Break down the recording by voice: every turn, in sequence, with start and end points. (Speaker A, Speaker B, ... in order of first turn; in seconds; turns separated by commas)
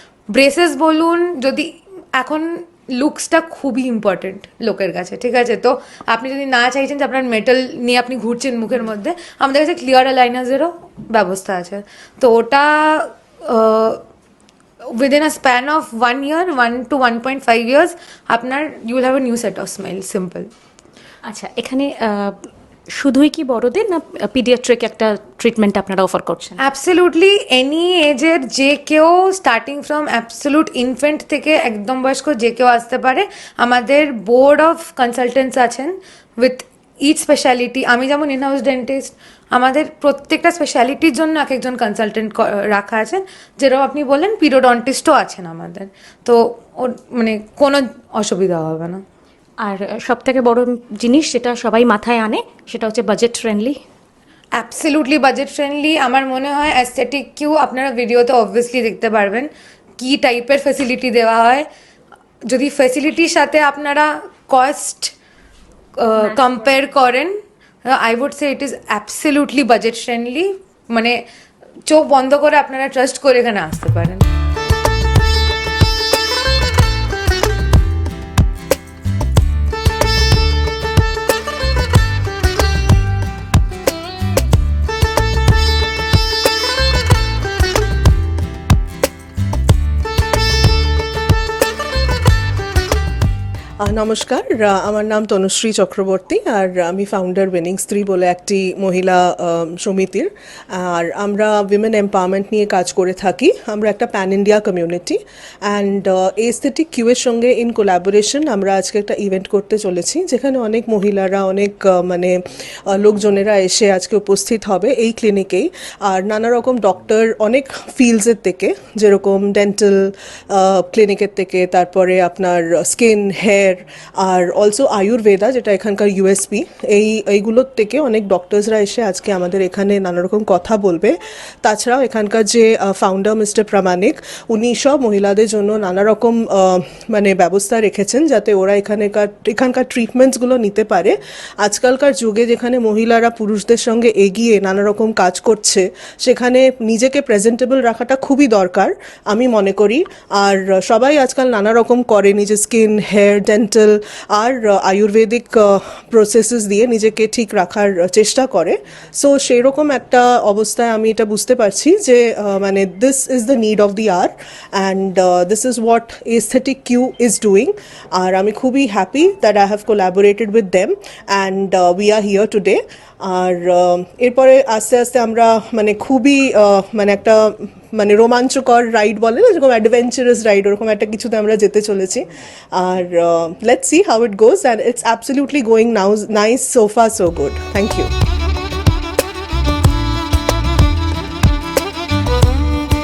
Speaker A: 0.3-14.0, Speaker A: 14.9-20.5, Speaker B: 21.3-26.6, Speaker A: 26.6-49.0, Speaker B: 49.6-53.8, Speaker A: 54.5-61.7, Speaker A: 62.5-65.1, Speaker A: 66.0-71.2, Speaker B: 66.2-66.8, Speaker A: 71.8-74.2, Speaker C: 93.8-188.1